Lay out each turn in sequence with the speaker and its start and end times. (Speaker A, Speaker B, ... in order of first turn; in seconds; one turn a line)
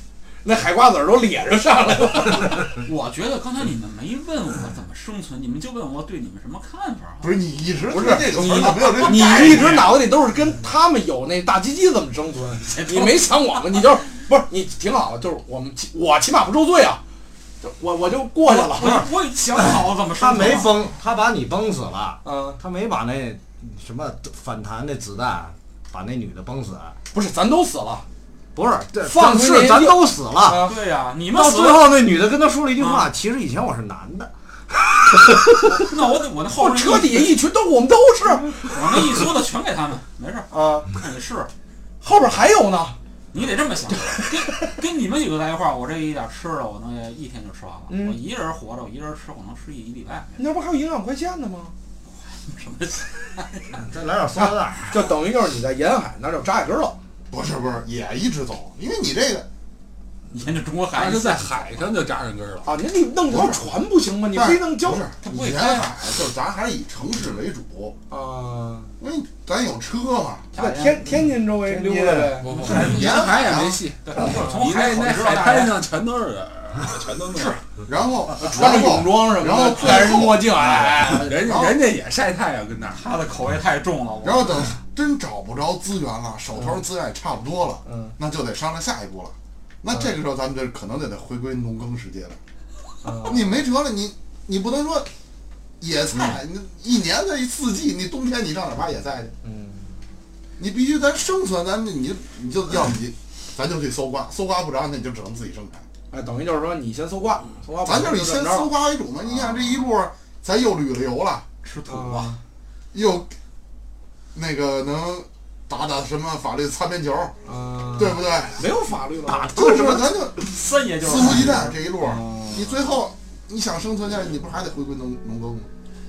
Speaker A: 0.4-2.7
Speaker B: 2.7-7.3
Speaker C: 7.2-9.9
Speaker A: 7.9-17.0
Speaker B: 8.0-10.0
Speaker B: 12.7-13.3
Speaker A: 17.6-19.1
Speaker B: 18.4-20.8
Speaker D: 19.6-26.9
Speaker A: 22.2-22.6
Speaker A: 27.1-28.1
Speaker D: 28.6-30.6
Speaker A: 29.0-30.8
Speaker B: 30.6-31.9
Speaker D: 31.3-34.3
Speaker B: 32.8-33.1
Speaker B: 35.6-37.4
Speaker A: 36.6-38.7
Speaker B: 38.6-41.5
Speaker A: 40.5-40.9
Speaker A: 42.0-43.0
Speaker B: 43.3-50.4
Speaker A: 44.1-44.7
Speaker A: 47.9-48.2
Speaker A: 50.4-51.7
Speaker B: 52.1-53.8
Speaker D: 53.7-54.9
Speaker A: 54.4-57.0
Speaker C: 57.3-59.5
Speaker B: 60.3-61.5
Speaker E: 60.9-62.7
Speaker A: 62.6-65.1
Speaker C: 63.3-63.6
Speaker C: 64.3-68.0
Speaker B: 65.2-66.0
Speaker A: 68.1-68.9
Speaker C: 69.0-70.5
Speaker B: 70.5-71.1
Speaker A: 70.6-72.5
Speaker D: 71.6-72.4
Speaker B: 72.4-75.8
Speaker E: 72.4-77.6
Speaker C: 72.6-73.8
Speaker C: 77.8-80.5
Speaker A: 78.4-81.7
Speaker E: 81.0-83.0
Speaker B: 82.9-84.7
Speaker C: 84.2-92.4
Speaker A: 86.5-86.8
Speaker A: 87.8-88.1
Speaker A: 93.0-93.6
Speaker C: 93.2-95.1
Speaker C: 95.8-99.3
Speaker A: 99.4-99.9
Speaker C: 100.6-105.8
Speaker A: 106.1-108.7
Speaker C: 107.8-111.5
Speaker B: 111.6-112.4
Speaker A: 111.9-112.4
Speaker C: 112.9-113.3
Speaker C: 114.3-117.3
Speaker A: 117.5-120.1
Speaker C: 118.0-118.7
Speaker C: 119.3-120.5
Speaker B: 120.4-121.7
Speaker C: 121.0-125.7
Speaker A: 121.2-122.8